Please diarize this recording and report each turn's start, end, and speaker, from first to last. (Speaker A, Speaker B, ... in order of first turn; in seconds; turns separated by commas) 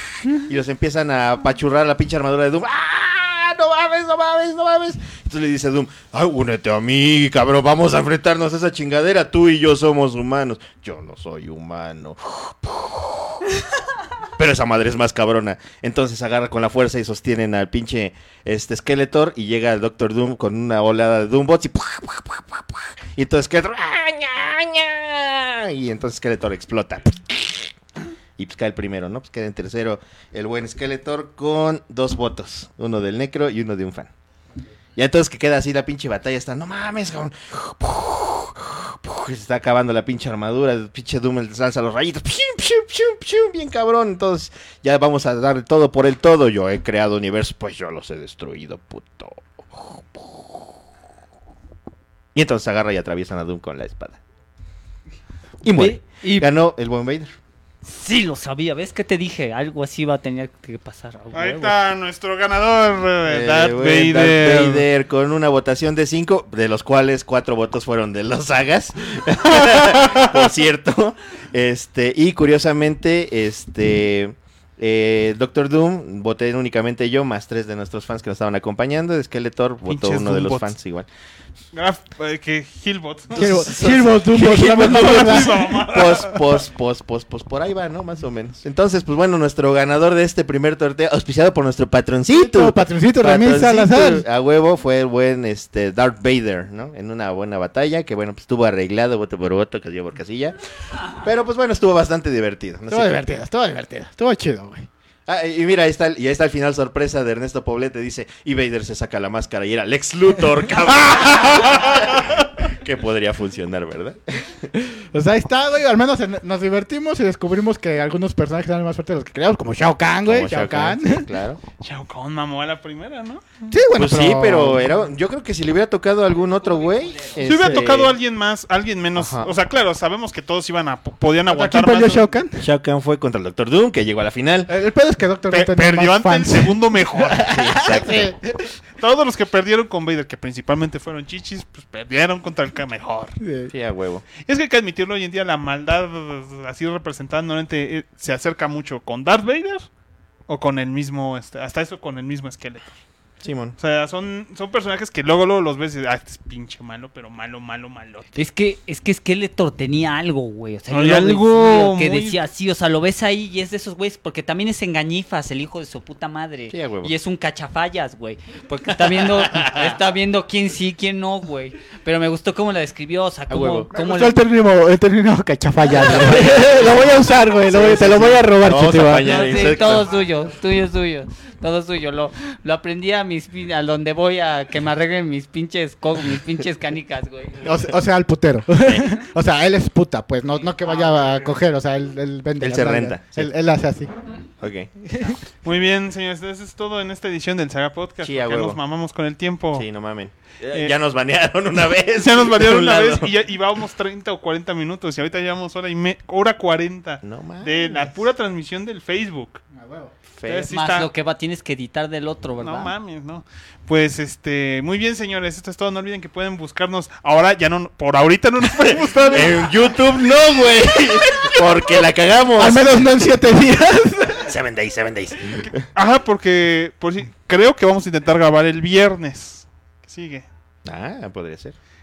Speaker A: 0.3-13.4, Speaker A: 14.3-27.7, Speaker A: 28.4-34.1, Speaker A: 35.0-50.6, Speaker A: 52.3-54.2, Speaker A: 55.6-57.3, Speaker B: 55.8-56.5, Speaker B: 57.8-61.8, Speaker C: 61.3-64.9, Speaker A: 63.3-81.1, Speaker C: 79.8-80.7, Speaker C: 81.7-83.7, Speaker D: 83.3-85.8, Speaker A: 83.3-100.6, Speaker C: 84.8-86.6, Speaker D: 92.3-94.2, Speaker A: 101.1-103.1, Speaker D: 102.9-104.9, Speaker A: 105.3-114.7, Speaker D: 110.9-111.7, Speaker D: 115.1-121.3, Speaker A: 120.2-121.6, Speaker C: 121.8-123.7, Speaker D: 123.7-125.0, Speaker A: 124.0-128.2, Speaker B: 126.6-127.4, Speaker C: 127.4-132.3, Speaker A: 129.2-129.5, Speaker D: 131.5-132.7, Speaker A: 132.6-134.7, Speaker D: 134.7-138.7, Speaker C: 135.5-137.6, Speaker A: 137.4-138.3, Speaker C: 139.0-143.4, Speaker D: 143.4-143.7, Speaker A: 143.7-144.3, Speaker C: 144.4-149.9, Speaker C: 150.5-153.0, Speaker A: 153.4-153.8, Speaker C: 153.8-158.3, Speaker B: 158.3-174.4, Speaker C: 160.9-162.4, Speaker A: 166.7-167.1, Speaker A: 169.2-170.0, Speaker A: 173.5-173.9, Speaker D: 173.9-179.7, Speaker A: 175.9-180.2, Speaker B: 179.2-187.6, Speaker D: 187.6-194.1, Speaker A: 188.8-189.1, Speaker A: 192.6-193.5, Speaker A: 194.6-194.9, Speaker D: 195.1-195.4, Speaker C: 195.6-199.9, Speaker A: 198.2-198.8, Speaker A: 199.7-203.3, Speaker C: 202.2-209.6, Speaker A: 207.2-208.0, Speaker D: 209.7-210.1, Speaker A: 210.4-210.7, Speaker C: 210.5-211.1, Speaker B: 210.5-212.9, Speaker C: 212.6-219.7, Speaker A: 218.7-222.9, Speaker D: 222.6-224.5, Speaker A: 224.4-225.8, Speaker C: 225.9-230.4, Speaker A: 230.8-231.8